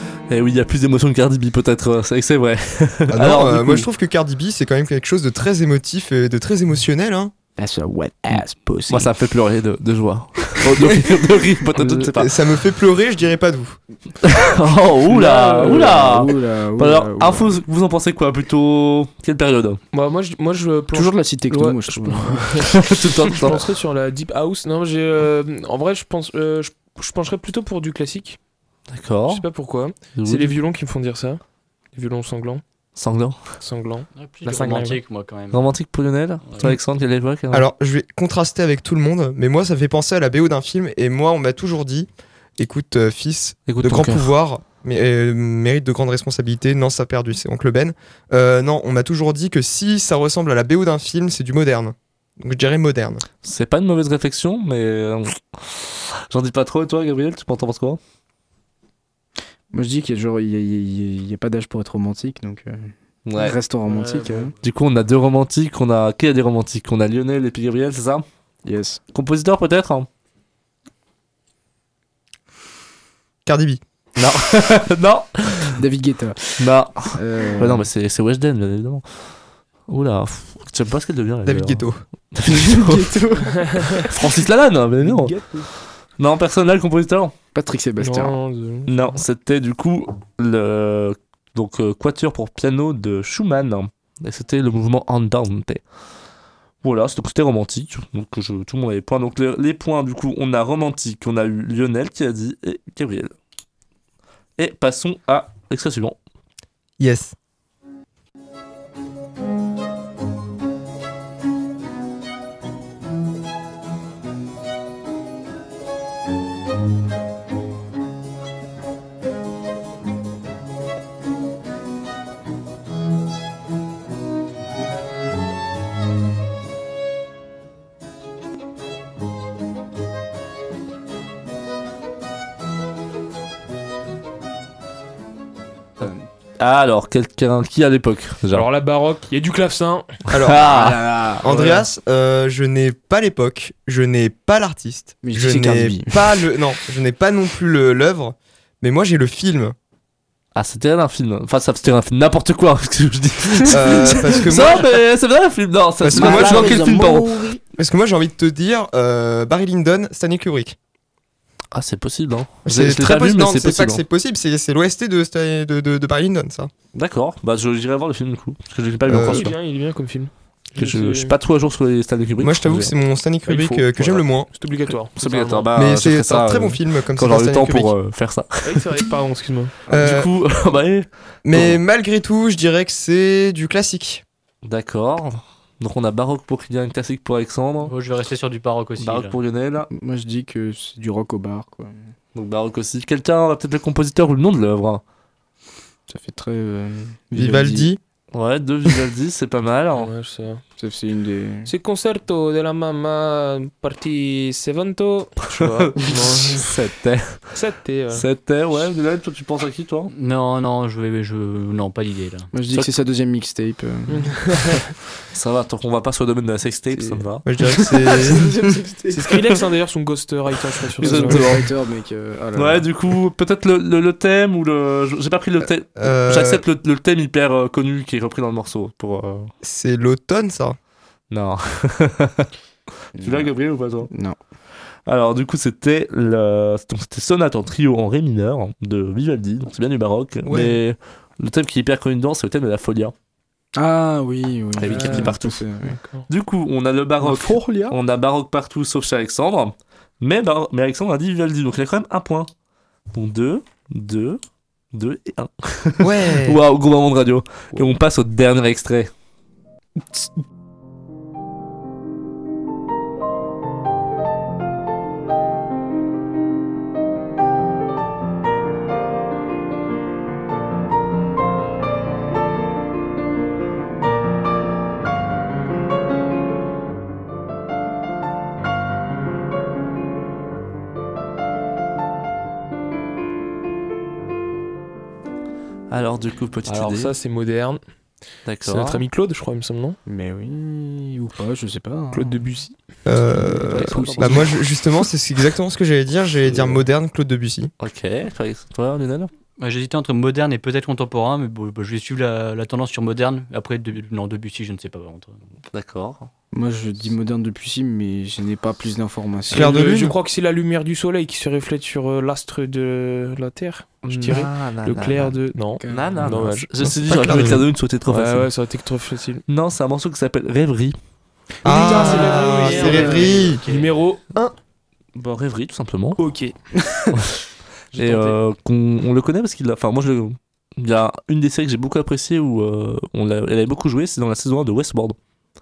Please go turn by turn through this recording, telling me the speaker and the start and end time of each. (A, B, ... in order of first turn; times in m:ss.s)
0:00.3-0:03.9 A
0:03.1-0:07.3 B
0:07.6-0:09.1 C
0:08.3-0:12.3 A
0:11.8-0:13.8 B
0:14.2-0:19.8 A
0:15.1-0:16.0 D
0:15.6-0:17.5 C
0:19.9-0:28.4 D
0:20.9-0:22.5 C
0:22.7-0:23.6 A
0:28.9-0:29.4 A
0:29.3-0:31.4 D
0:30.1-0:30.6 A
0:31.9-0:32.6 D
0:33.0-0:33.4 A
0:33.6-0:35.0 D
0:34.1-0:35.6 E
0:35.5-0:37.6 A
0:36.4-0:36.7 E
0:37.5-0:53.2 B
0:43.7-0:44.3 A
0:53.4-0:58.0 A
0:59.7-1:04.5 C
1:03.2-1:03.6 A
1:03.9-1:04.5 E
1:04.6-1:08.2 A
1:08.6-1:09.0 C
1:09.1-1:10.1 A
1:13.4-1:13.8 B
1:14.2-1:15.7 A
1:15.8-1:17.9 C
1:16.6-1:19.0 A
1:19.9-1:23.1 A
1:21.4-1:22.0 B
1:22.4-1:24.1 C
1:23.5-1:24.0 D
1:24.1-1:25.4 A
1:25.0-1:25.6 D
1:26.2-1:27.3 A
1:27.5-1:28.4 C
1:28.0-1:29.2 D
1:28.9-1:35.8 A
1:36.8-1:43.3 A
1:44.6-1:46.2 A
1:47.0-1:47.3 B
2:16.6-2:18.7 A
2:18.5-2:20.1 D
2:20.3-2:20.6 B
2:20.3-2:21.0 A
2:20.5-2:21.7 C
2:21.4-2:29.7 B
2:21.5-2:21.7 D
2:25.2-2:26.4 C
2:30.5-2:37.3 A
2:33.7-2:34.9 B
2:33.8-2:34.2 C
2:36.0-2:36.9 B
2:36.1-2:37.6 C
2:37.8-2:40.8 B
2:41.7-2:44.0 A
2:42.6-2:46.7 B
2:46.9-2:49.5 A
2:49.1-2:49.5 B
2:49.1-2:51.3 D
2:50.8-2:52.9 A
2:52.4-2:54.5 B
2:53.4-2:55.7 D
2:55.2-2:58.8 A
2:55.7-2:57.9 B
2:58.6-2:59.7 D
2:59.9-3:00.2 C
2:59.9-3:00.3 B
2:59.9-3:01.8 A
3:01.4-3:04.2 B
3:04.6-3:07.9 A
3:07.8-3:09.4 E
3:09.0-3:09.9 A
3:09.9-3:12.1 C
3:12.3-3:15.0 A
3:16.1-3:17.9 C
3:17.3-3:18.0 B
3:18.3-3:20.1 A
3:19.9-3:20.6 D
3:20.8-3:21.7 C
3:21.6-3:26.8 D
3:25.6-3:27.5 A
3:27.5-3:28.2 D
3:28.1-3:30.1 A
3:30.1-3:32.5 E
3:32.5-3:34.4 C
3:34.1-3:34.8 D
3:35.3-3:37.4 A
3:36.9-3:39.6 C
3:37.4-3:38.6 B
3:39.1-3:41.5 D
3:41.0-3:42.9 C
3:41.0-3:41.6 A
3:42.6-3:49.5 A
3:46.0-3:46.6 B
3:49.6-3:50.8 B
3:51.3-3:52.5 A
3:53.2-3:53.5 C
3:53.2-3:54.1 A
3:54.1-3:54.4 C
3:55.1-4:03.1 A
4:00.4-4:00.8 B
4:03.7-4:06.0 C
4:04.8-4:05.6 A
4:04.9-4:05.3 D
4:06.3-4:12.5 A
4:07.2-4:07.9 C
4:13.1-4:14.4 A
4:14.9-4:19.1 A
4:16.0-4:16.6 B
4:45.9-4:47.1 A
4:46.6-4:47.8 D
4:48.4-4:49.0 A
4:48.6-4:50.0 D
4:50.0-4:52.4 C
4:52.1-4:52.7 D
4:53.0-4:57.7 B
4:53.6-4:54.5 A
4:53.7-4:54.3 D
4:56.5-4:56.8 C
4:57.8-4:59.3 A
4:59.6-5:05.4 E
5:05.7-5:06.3 A
5:06.5-5:09.8 C
5:09.5-5:19.4 D
5:09.5-5:10.2 B
5:14.0-5:15.4 A
5:15.8-5:16.3 C
5:15.9-5:18.5 A
5:16.8-5:17.6 B
5:19.5-5:21.0 A
5:21.6-5:24.2 D
5:21.6-5:23.6 B
5:22.0-5:23.9 E
5:25.1-5:26.2 A
5:26.2-5:27.1 D
5:27.9-5:28.4 D
5:27.9-5:35.2 A